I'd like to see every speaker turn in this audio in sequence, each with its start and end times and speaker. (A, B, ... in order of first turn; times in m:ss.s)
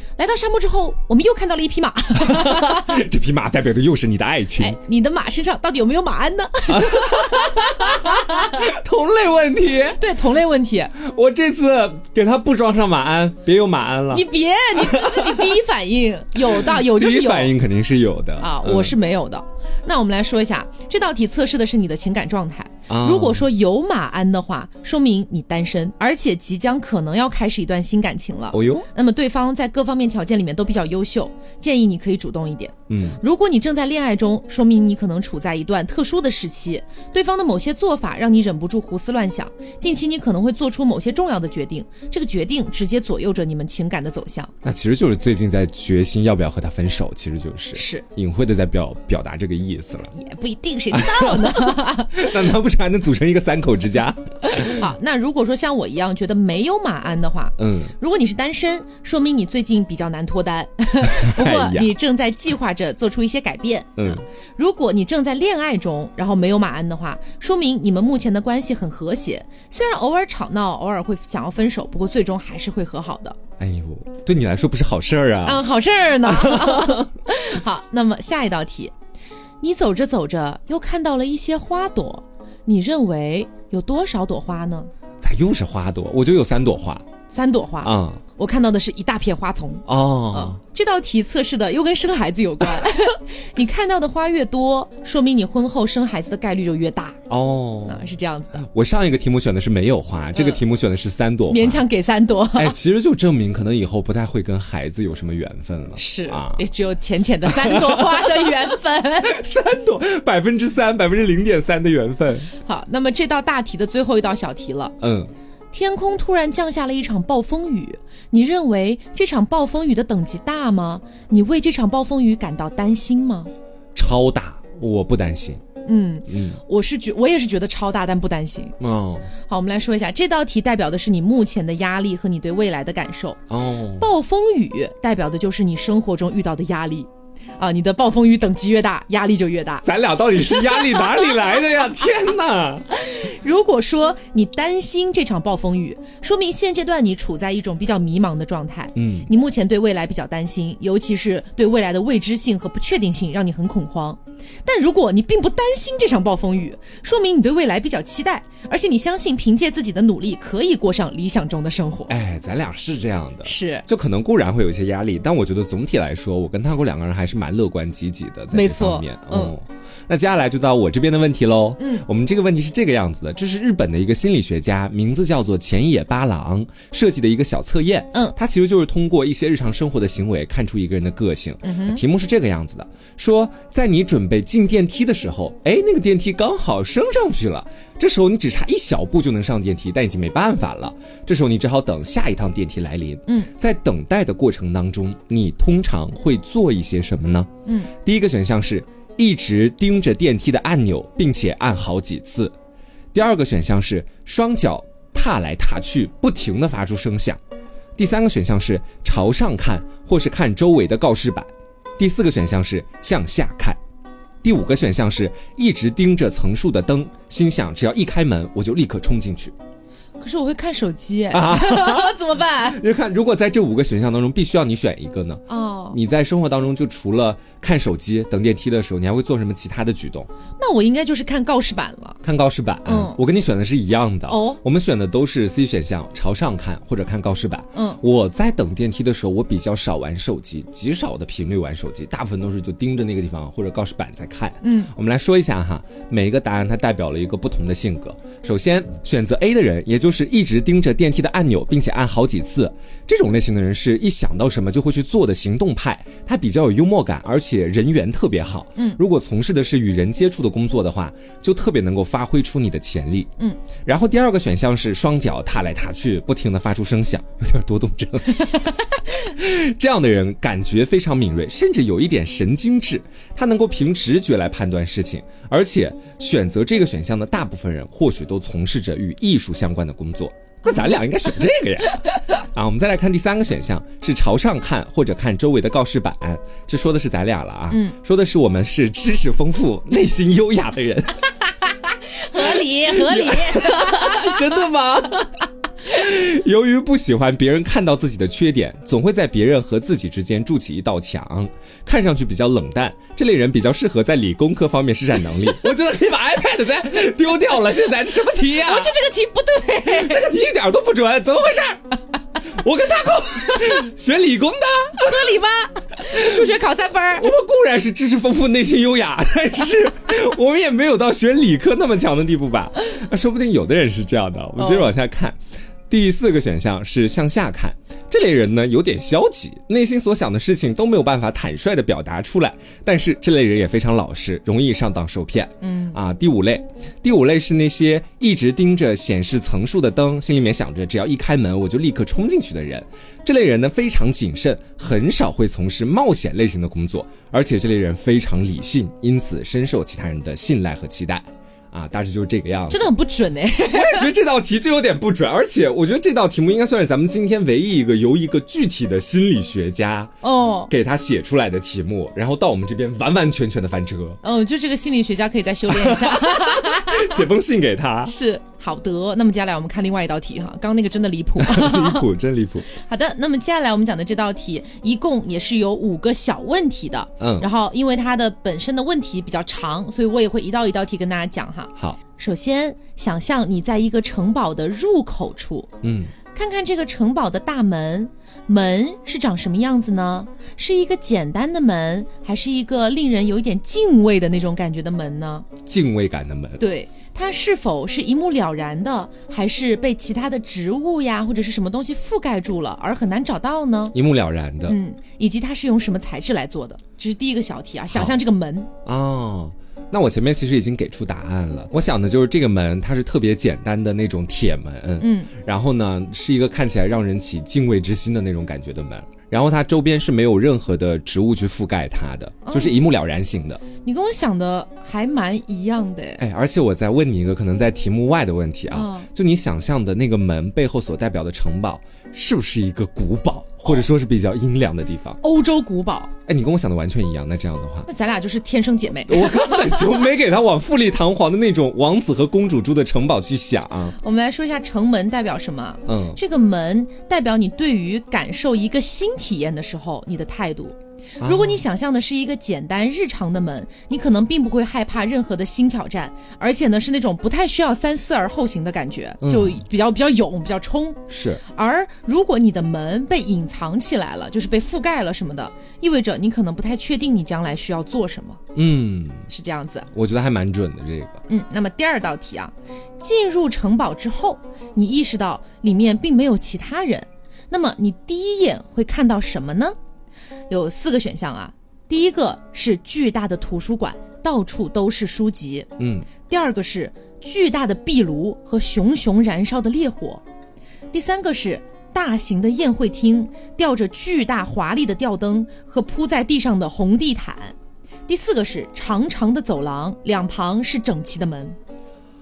0:00.2-0:03.0 A
0:02.2-0:04.8 B
0:04.6-0:08.6 A
0:06.7-0:10.0 B
0:10.0-0:11.0 A
0:11.0-0:15.6 B
0:14.1-0:17.6 A
0:16.5-0:18.9 B
0:18.4-0:44.5 A
0:22.9-0:23.4 B
0:28.5-0:28.9 B
0:32.9-0:33.2 B
0:44.6-0:50.1 B
0:47.7-0:48.0 A
0:50.1-0:52.3 A
0:50.9-0:54.9 B
0:54.5-1:13.4 A
0:57.6-0:57.9 B
1:01.0-1:01.9 B
1:04.0-1:04.2 B
1:13.6-1:15.6 B
1:15.4-1:18.9 A
1:16.2-1:17.1 B
1:19.6-1:24.9 A
1:25.2-1:27.0 B
1:27.3-1:37.2 A
1:27.8-1:28.2 B
1:29.9-1:30.6 B
1:37.3-1:38.0 B
1:37.9-1:38.6 A
1:38.6-1:41.8 B
1:40.3-1:40.6 A
1:41.5-1:42.8 A
1:42.6-1:46.6 B
1:46.0-1:49.4 A
1:47.4-1:48.5 B
1:49.2-1:52.5 B
1:52.6-1:55.0 A
1:55.0-1:55.3 B
1:55.7-2:03.5 A
2:04.0-2:05.6 B
2:05.9-2:08.8 A
2:06.3-2:06.6 B
2:08.8-2:09.3 B
2:09.5-2:13.4 A
2:13.5-2:14.1 B
2:14.0-2:19.9 A
2:19.8-2:22.9 B
2:20.5-2:21.4 A
2:22.9-2:42.1 A
2:29.0-2:29.3 B
2:42.1-3:22.5 B
2:43.4-2:43.8 A
2:48.5-2:49.6 A
2:51.8-2:52.1 A
3:01.6-3:02.0 A
3:17.7-3:17.9 A
3:23.1-3:27.4 B
3:28.0-3:33.8 B
3:34.4-3:39.5 B
3:40.2-3:42.8 A
3:41.3-3:50.3 B
3:45.5-3:46.0 A
3:50.6-3:52.2 A
3:52.2-4:23.3 B
3:52.9-3:53.2 A
3:54.3-3:54.6 A
3:57.8-3:58.0 A
4:04.6-4:04.9 A
4:23.8-4:51.3 B
4:47.7-4:48.0 A
4:52.2-4:54.5 A
4:52.3-4:55.3 B
4:55.8-5:09.0 B
5:08.6-5:10.3 A
5:09.8-5:11.9 B
5:12.5-5:15.4 B
5:15.0-5:17.3 A
5:16.1-5:16.5 B
5:17.2-5:25.4 B
5:24.6-5:24.9 A
5:25.9-5:52.9 B
5:35.6-5:36.0 A
5:52.7-5:54.1 A
5:53.7-6:00.1 B
6:00.2-6:00.7 A
6:00.7-6:04.2 B
6:04.2-6:07.2 A
6:05.7-6:08.1 B
6:08.1-6:12.1 A
6:11.4-6:12.7 B
6:12.7-6:25.7 A
6:17.2-6:17.5 B
6:25.8-6:26.1 B
6:26.3-6:35.5 A
6:35.6-6:36.6 B
6:36.6-6:44.0 A
6:43.9-6:44.8 B
6:44.7-6:48.7 A
6:47.9-6:48.2 B
6:48.9-7:03.6 B
6:55.0-6:55.3 A
7:02.4-7:02.8 A
7:03.8-7:06.2 A
7:06.2-7:15.2 B
7:08.7-7:09.1 A
7:15.2-7:16.1 A
7:16.3-7:17.9 B
7:17.9-7:20.0 A
7:19.1-7:24.0 B
7:24.0-7:48.4 A
7:25.9-7:26.2 B
7:31.2-7:31.6 B
7:39.2-7:39.6 B
7:41.1-7:41.4 B
7:48.6-7:49.3 B
7:49.3-7:49.9 A
7:49.9-7:51.2 B
7:51.3-7:59.8 A
8:00.5-8:10.2 A
8:05.8-8:06.1 B
8:10.9-8:17.6 A
8:18.1-8:21.6 A